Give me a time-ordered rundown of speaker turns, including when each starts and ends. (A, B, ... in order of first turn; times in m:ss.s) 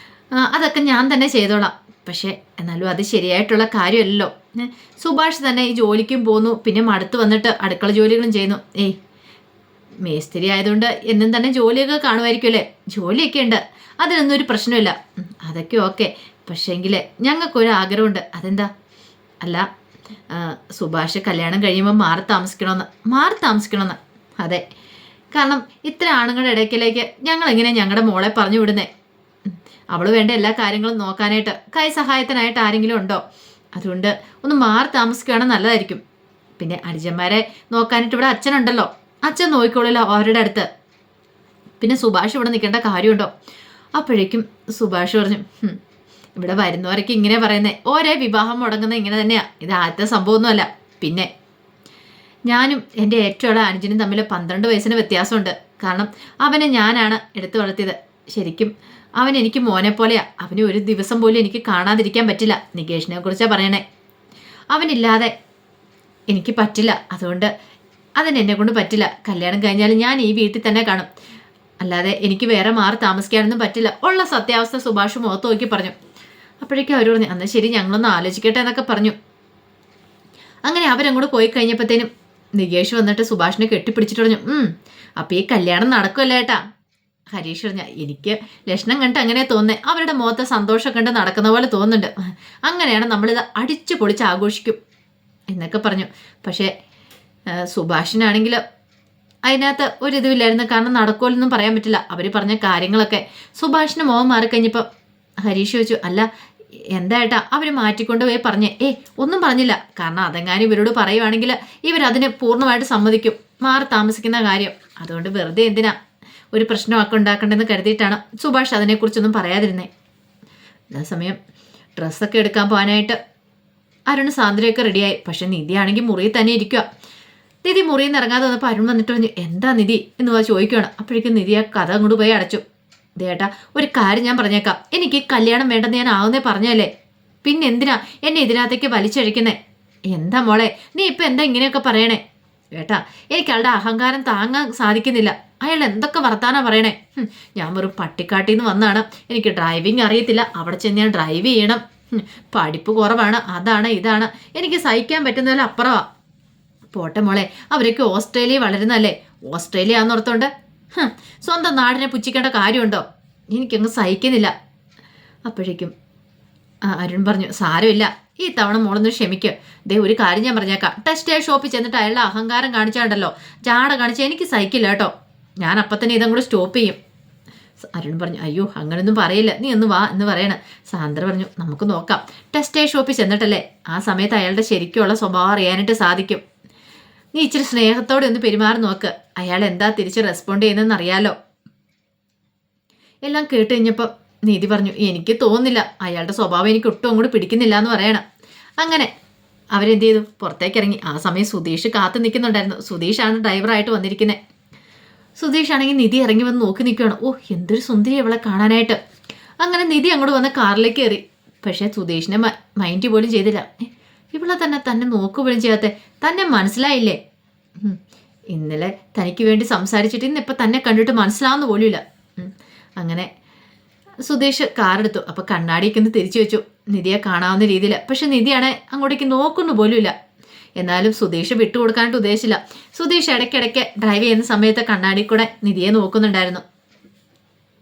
0:00.3-0:09.0 A
0:10.0-0:18.7 A
0:19.4-0:19.6 A
0:20.3-0:24.6 A
0:25.3-0:28.9 A
0:29.5-0:33.2 A
0:33.7-0:36.0 A
0:36.6-0:40.7 A
0:41.8-0:43.3 A
0:44.0-0:45.8 A
0:46.4-0:51.3 A
0:52.5-1:03.8 A
1:04.7-1:05.3 A
1:06.3-1:07.5 A
1:08.2-1:11.1 A
1:11.8-1:15.9 A
1:16.6-1:19.1 A
1:20.6-1:26.6 A
1:27.3-1:34.8 A
1:35.5-1:36.7 A
1:37.5-1:38.6 A
1:39.4-1:44.8 A
1:45.4-1:46.3 A
1:46.9-1:55.9 A
1:56.5-1:59.9 A
2:00.9-2:01.4 A
2:02.0-2:03.2 A
2:04.1-2:06.8 A
2:07.6-2:12.6 A
2:13.2-2:16.9 A
2:17.4-2:19.6 A
2:20.1-2:22.2 A
2:22.7-2:36.0 A
2:36.9-2:44.5 A
2:45.4-2:45.9 A
2:46.8-2:57.0 A
2:57.8-3:06.4 A
3:07.3-3:11.3 A
3:13.2-3:18.2 A
3:18.8-3:19.1 A
3:19.7-3:24.4 A
3:25.4-3:29.0 A
3:29.6-3:37.2 A
3:38.5-3:43.3 A
3:44.2-3:50.1 A
3:50.8-3:56.6 A